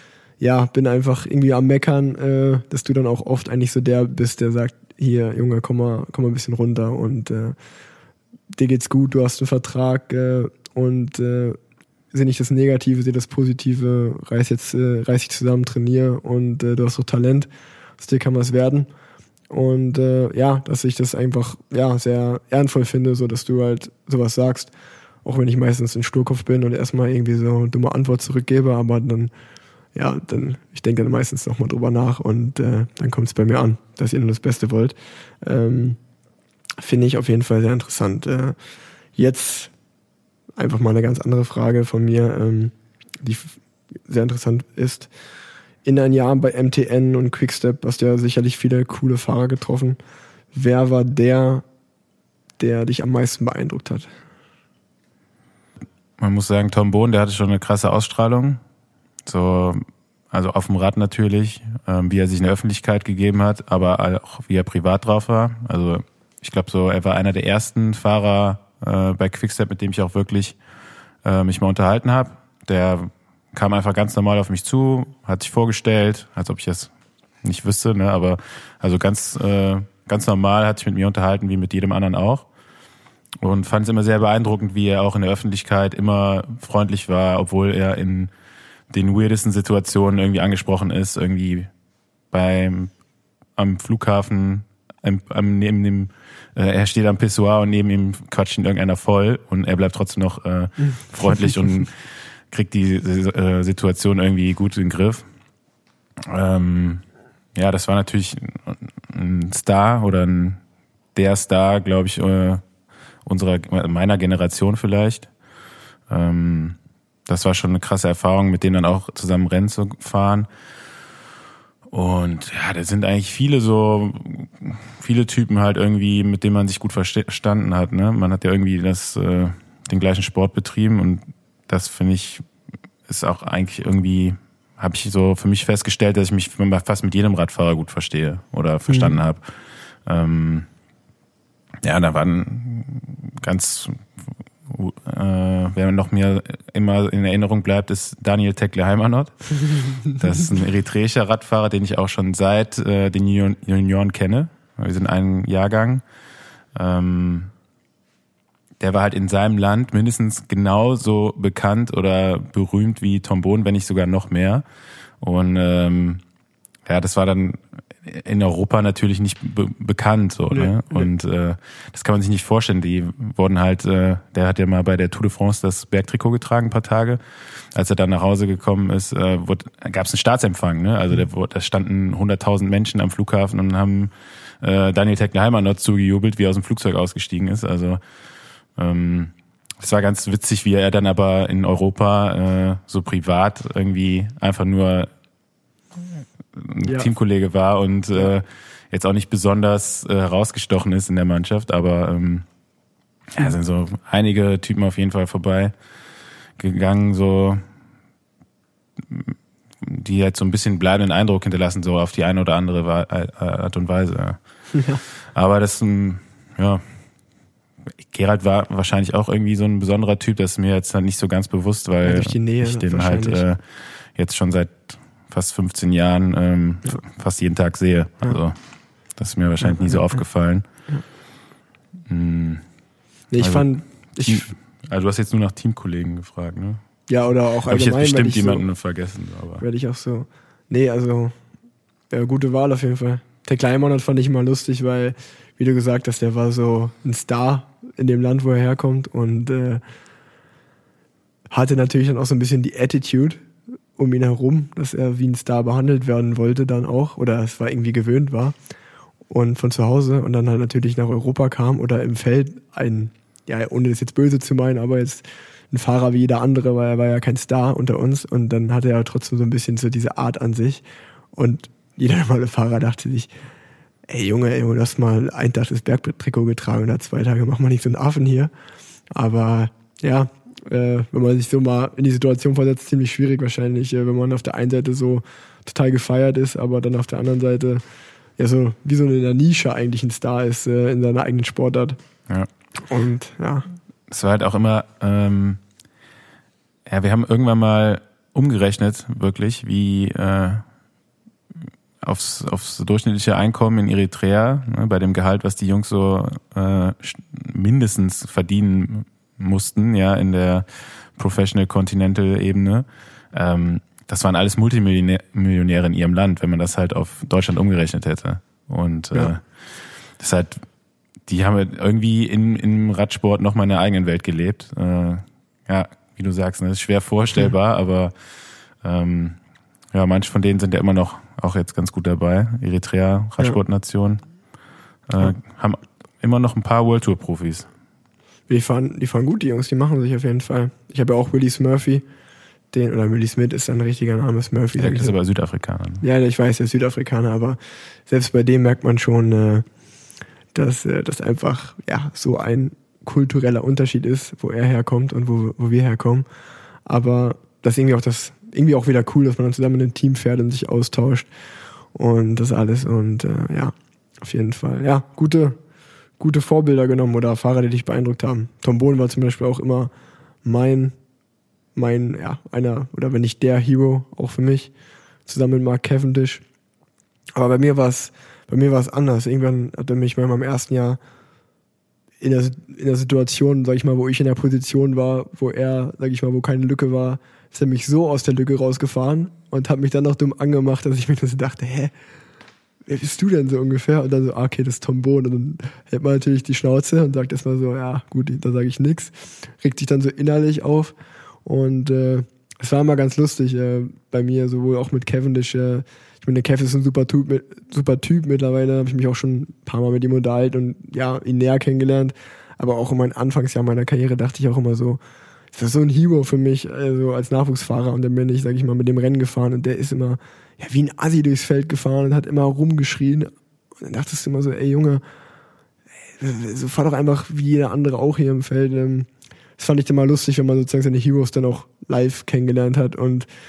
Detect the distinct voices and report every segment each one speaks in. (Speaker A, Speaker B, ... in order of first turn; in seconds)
Speaker A: 0.4-7.5, 8.5-11.6, 12.1-18.9, 19.5-24.7, 25.2-29.3, 29.9-36.0, 36.8-38.5, 39.1-39.7, 40.6-45.1, 45.8-50.0, 50.5-51.6, 52.6-54.1, 138.9-139.2, 170.5-171.1, 214.7-215.0, 222.0-223.4, 229.6-230.2, 233.3-234.5, 237.1-238.7, 239.6-241.3, 242.1-249.8, 251.5-253.4, 253.9-258.5, 259.3-270.8, 271.4-273.3, 274.1-278.5, 279.1-287.8, 288.4-292.0, 292.9-293.6, 338.5-342.0, 342.7-345.1, 346.0-349.6, 350.5-356.2, 356.9-361.3, 361.9-365.6, 366.2-369.9, 370.4-370.9, 371.8-374.7, 375.2-376.4, 377.4-381.0, 382.2-391.9, 392.9-400.9, 401.4-415.0, 415.5-423.3, 423.8-425.0, 426.2-433.3
Speaker B: 56.2-58.6, 59.2-70.6, 71.2-76.9, 77.4-82.5, 83.4-88.3, 88.9-91.7, 92.3-92.9, 93.5-105.2, 106.2-107.0, 107.5-110.6, 111.1-112.6, 113.2-115.3, 116.1-120.5, 121.9-132.4, 133.1-139.4, 140.0-140.7, 141.8-144.1, 144.7-156.0, 156.7-157.5, 158.8-164.6, 165.2-166.2, 166.8-177.2, 177.7-188.0, 188.8-195.1, 196.0-202.4, 203.3-205.7, 206.6-207.6, 209.0-214.4, 215.3-216.8, 218.0-223.6, 224.1-228.6, 229.2-230.6, 232.1-232.6, 233.4-236.8, 237.7-239.6, 294.1-295.6, 296.9-300.6, 302.0-319.4, 320.2-320.6, 321.3-328.1, 328.8-329.4, 329.9-334.2, 335.1-337.7, 344.8-346.0